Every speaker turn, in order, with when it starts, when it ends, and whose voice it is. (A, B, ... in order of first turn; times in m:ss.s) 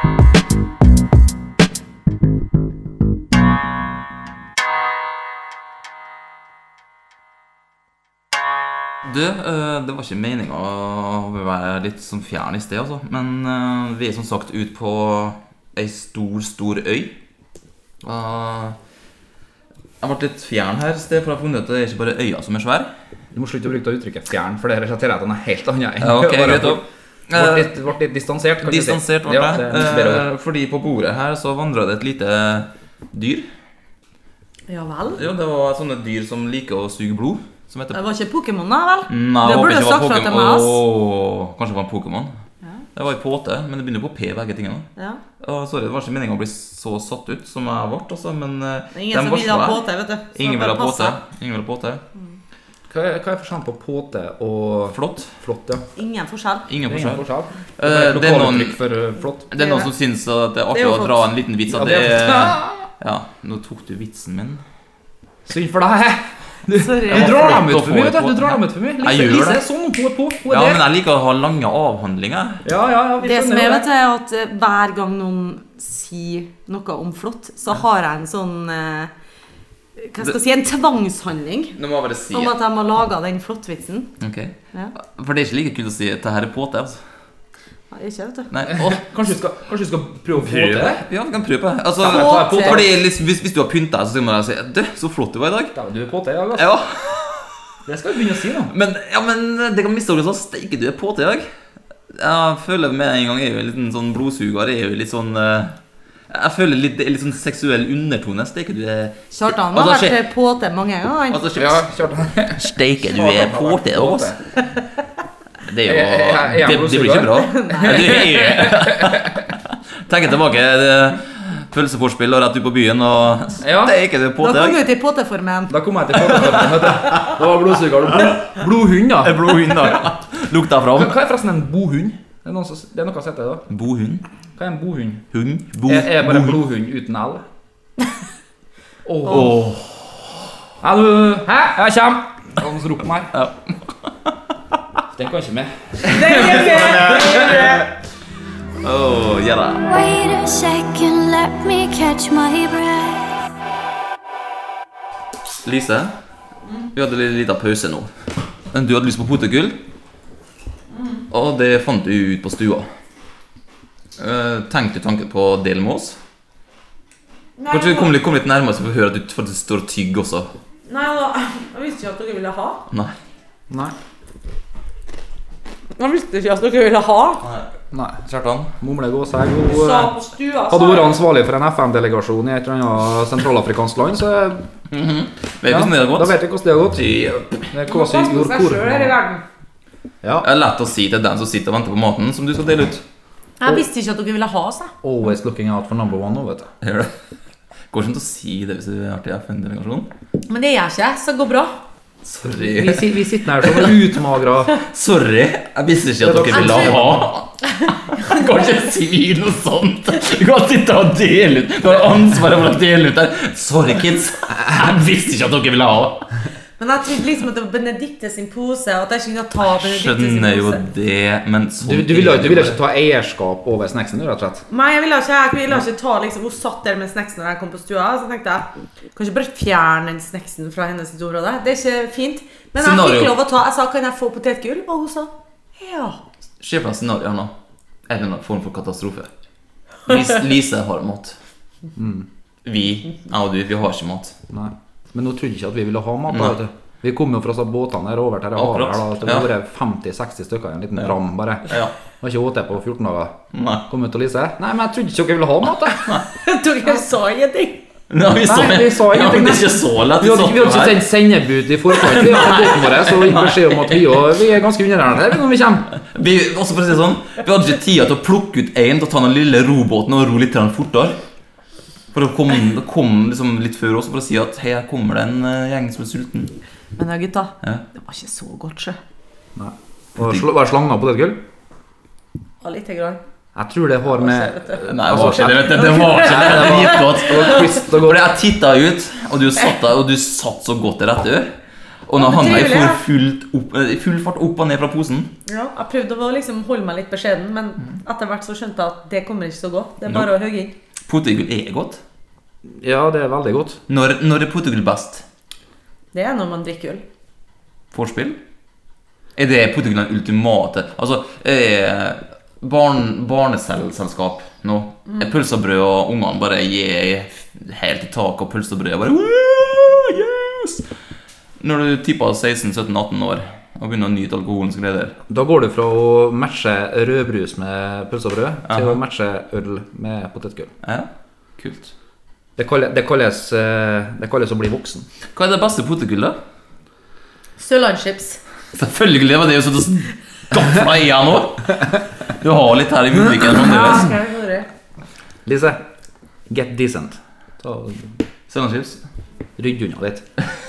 0:09.0-0:17.1 A
0:18.0-0:18.8 A
0:20.0-0:22.9 A
0:23.3-0:30.2 B
0:26.0-0:27.7 A
0:28.6-0:33.5 A
0:34.7-0:35.2 C
0:35.1-0:38.0 A
0:37.9-0:40.8 C
0:39.1-0:42.3 A
0:42.9-0:44.9 A
0:45.4-0:49.8 A
0:48.9-0:51.2 C
0:50.3-0:52.0 A
0:52.9-0:55.8 B
0:54.9-0:55.3 A
0:56.0-0:56.7 C
0:56.7-0:57.2 A
0:56.9-0:59.5 B
0:57.8-0:58.8 A
0:59.5-1:04.6 A
0:59.5-0:59.9 C
1:00.7-1:01.2 C
1:01.7-1:02.9 B
1:05.4-1:10.8 B
1:06.7-1:07.6 C
1:07.1-1:09.6 A
1:10.5-1:12.6 A
1:12.6-1:13.8 B
1:13.2-1:19.1 C
1:20.0-1:21.8 C
1:21.8-1:22.5 A
1:22.3-1:24.1 C
1:24.2-1:27.0 A
1:27.9-1:28.5 C
1:28.5-1:29.0 A
1:28.7-1:31.0 B
1:30.3-1:35.7 A
1:32.0-1:33.0 B
1:32.0-1:32.8 C
1:35.7-1:36.7 B
1:36.5-1:37.7 A
1:37.8-1:38.7 B
1:38.7-1:41.5 A
1:42.1-1:45.8 A
1:46.3-1:50.2 A
1:49.3-1:51.6 C
1:51.3-1:51.9 A
1:51.6-1:54.4 B
1:52.5-1:54.3 A
1:55.7-2:04.8 A
1:55.8-1:59.4 B
1:57.4-1:58.3 C
2:03.6-2:04.0 B
2:04.4-2:05.7 C
2:05.7-2:10.0 B
2:06.2-2:07.4 A
2:09.2-2:11.2 A
2:10.9-2:13.6 B
2:13.7-2:14.2 A
2:14.6-2:15.2 B
2:15.3-2:16.6 A
2:15.9-2:17.4 B
2:19.0-2:19.6 B
2:19.2-2:20.3 A
2:20.8-2:23.3 B
2:23.3-2:24.1 A
2:25.1-2:27.6 B
2:26.1-2:27.8 C
2:26.3-2:27.9 A
2:28.8-2:29.8 A
2:29.9-2:33.3 D
2:35.6-2:36.1 A
2:36.9-2:38.1 A
2:38.7-2:39.8 A
2:41.3-2:42.9 A
2:44.2-2:46.2 A
2:47.6-2:48.2 C
2:47.7-2:50.5 A
2:50.9-2:52.8 C
2:52.9-2:53.2 A
2:53.7-2:53.9 B
2:56.0-2:57.4 C
2:57.4-2:57.7 A
2:57.9-2:58.2 B
2:58.2-2:58.7 A
2:58.8-3:00.1 B
2:59.6-3:01.2 C
3:00.7-3:04.7 B
3:04.9-3:06.4 A
3:05.7-3:07.0 B
3:06.9-3:07.7 A
3:07.7-3:09.2 B
3:07.9-3:09.4 C
3:10.2-3:10.5 B
3:10.4-3:13.0 A
3:13.6-3:14.9 C
3:15.0-3:16.7 B
3:16.8-3:17.1 A
3:17.9-3:20.1 A
3:20.5-3:21.8 C
3:22.3-3:24.0 A
3:22.4-3:24.8 B
3:24.8-3:36.2 A
3:26.2-3:27.3 B
3:26.5-3:27.0 C
3:36.8-3:40.8 C
3:39.7-3:42.8 A
3:41.8-3:44.6 B
3:44.7-3:56.2 C
3:52.8-3:53.3 A
3:56.6-3:57.5 A
3:58.1-3:59.3 A
4:00.1-4:01.4 A
4:02.0-4:02.3 B
4:02.6-4:04.4 A
4:04.5-4:13.4 B
4:06.3-4:06.6 A
4:08.5-4:09.5 A
4:10.9-4:11.9 A
4:13.5-4:13.9 A
4:13.9-4:16.2 B
4:16.3-4:17.8 C
4:18.1-4:21.0 A
4:18.4-4:25.9 B
4:21.9-4:24.4 A
4:26.0-4:31.2 A
4:32.1-4:36.5 A
4:37.0-4:39.0 C
4:39.6-4:41.4 B
4:40.2-4:40.4 A
4:42.6-4:43.2 C
4:43.5-4:48.2 B
4:44.1-4:47.6 C
4:44.9-4:51.6 A
4:52.1-4:55.3 A
4:52.2-4:53.0 C
4:55.5-5:00.7 C
5:01.1-5:02.0 A
5:02.8-5:03.8 B
5:03.9-5:05.2 A
5:06.1-5:07.0 C
5:07.9-5:08.4 A
5:09.4-5:20.9 A
5:21.6-5:25.2 A
5:25.3-5:30.7 B
5:28.7-5:29.0 A
5:30.8-5:31.9 A
5:32.6-5:35.0 B
5:35.3-5:36.4 A
5:37.6-5:38.4 C
5:38.7-5:44.1 A
5:43.5-5:44.7 C
5:45.4-5:45.8 B
5:46.5-5:48.2 B
5:48.5-5:49.0 A
5:49.6-5:50.3 B